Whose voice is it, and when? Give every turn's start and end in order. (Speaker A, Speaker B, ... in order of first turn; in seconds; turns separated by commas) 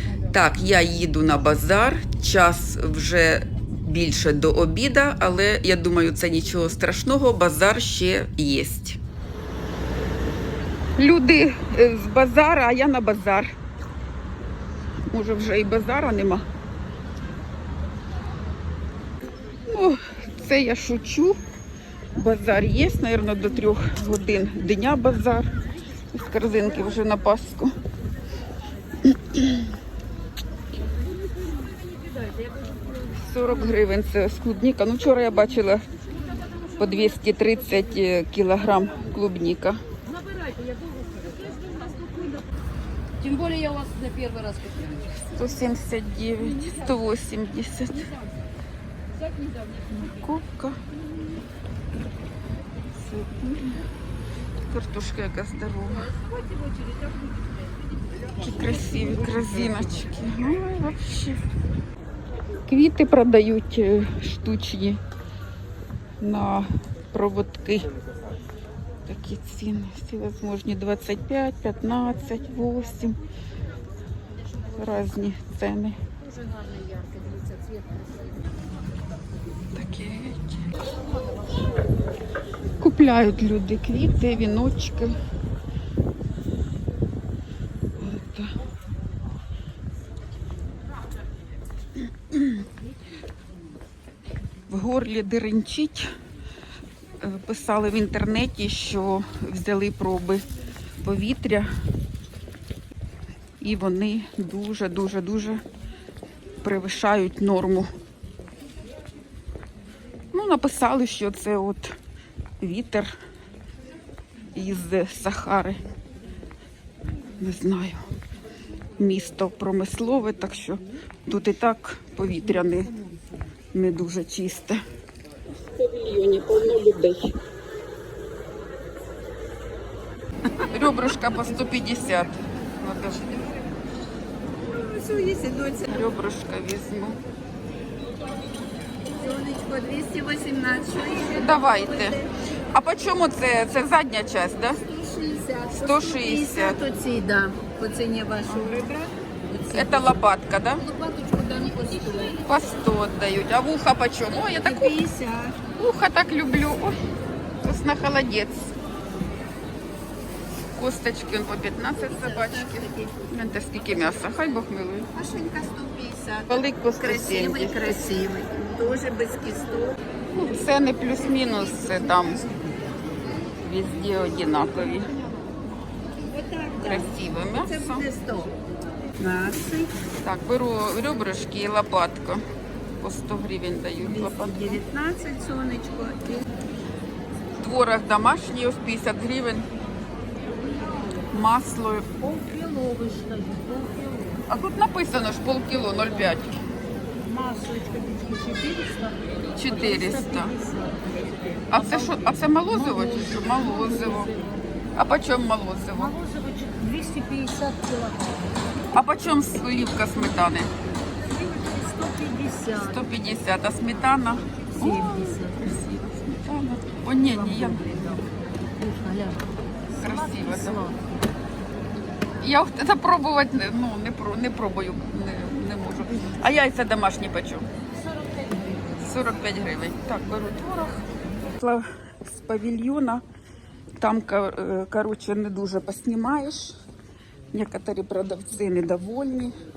Speaker A: 0.3-9.0, Speaker A: 11.0-13.5, Speaker A: 15.1-16.5, Speaker A: 19.7-21.4, Speaker A: 22.1-25.6, Speaker A: 26.1-27.8, Speaker A: 29.1-29.7, Speaker A: 33.1-35.8, Speaker A: 36.8-39.8, Speaker B: 41.3-42.4, Speaker C: 43.2-44.8, Speaker B: 43.3-44.9, Speaker A: 45.2-48.1, Speaker A: 49.9-50.8, Speaker A: 53.0-53.8, Speaker A: 54.7-56.1, Speaker A: 58.4-61.4, Speaker A: 62.7-65.0, Speaker A: 66.2-67.9, Speaker A: 69.1-73.2, Speaker A: 74.7-76.0, Speaker B: 76.7-77.7, Speaker A: 79.8-80.7, Speaker A: 82.8-85.2, Speaker A: 88.0-88.5, Speaker A: 94.7-96.1, Speaker A: 97.2-100.5, Speaker A: 101.0-101.7, Speaker A: 103.6-105.6, Speaker A: 106.6-107.9, Speaker A: 110.3-112.0, Speaker A: 112.6-113.1, Speaker A: 114.5-115.8, Speaker A: 117.4-118.1, Speaker A: 119.0-122.9, Speaker A: 123.7-124.8, Speaker A: 125.7-127.4, Speaker A: 130.6-133.3, Speaker C: 134.6-136.1, Speaker A: 135.9-137.2, Speaker C: 139.1-142.3, Speaker A: 141.4-142.2, Speaker A: 142.7-144.8, Speaker C: 144.8-150.1, Speaker A: 145.7-146.8, Speaker A: 148.4-148.9, Speaker A: 149.7-150.8, Speaker C: 150.8-152.4, Speaker A: 152.4-154.9, Speaker C: 154.5-155.6, Speaker A: 155.7-157.0, Speaker A: 157.6-158.7, Speaker A: 160.8-165.1, Speaker C: 162.1-163.3, Speaker C: 165.1-170.0, Speaker A: 166.5-168.0, Speaker A: 170.3-172.4, Speaker C: 171.9-172.5, Speaker A: 173.6-175.1, Speaker C: 176.2-178.6, Speaker A: 176.8-178.1, Speaker C: 179.2-179.9, Speaker A: 180.2-182.4, Speaker A: 183.0-184.8, Speaker C: 184.0-186.4, Speaker A: 187.6-189.7, Speaker A: 191.3-192.1, Speaker B: 192.2-194.4, Speaker A: 194.5-196.6, Speaker B: 197.2-202.1, Speaker A: 199.5-200.5, Speaker A: 201.7-204.4, Speaker B: 202.8-204.6, Speaker A: 204.9-206.2, Speaker B: 206.0-208.5, Speaker A: 208.9-210.7, Speaker B: 211.4-212.8, Speaker A: 212.7-218.3, Speaker B: 218.8-219.4, Speaker A: 220.0-220.8, Speaker B: 220.3-221.1, Speaker A: 222.4-227.7, Speaker B: 228.1-228.9, Speaker A: 228.9-233.2, Speaker A: 234.0-236.8, Speaker A: 237.5-239.5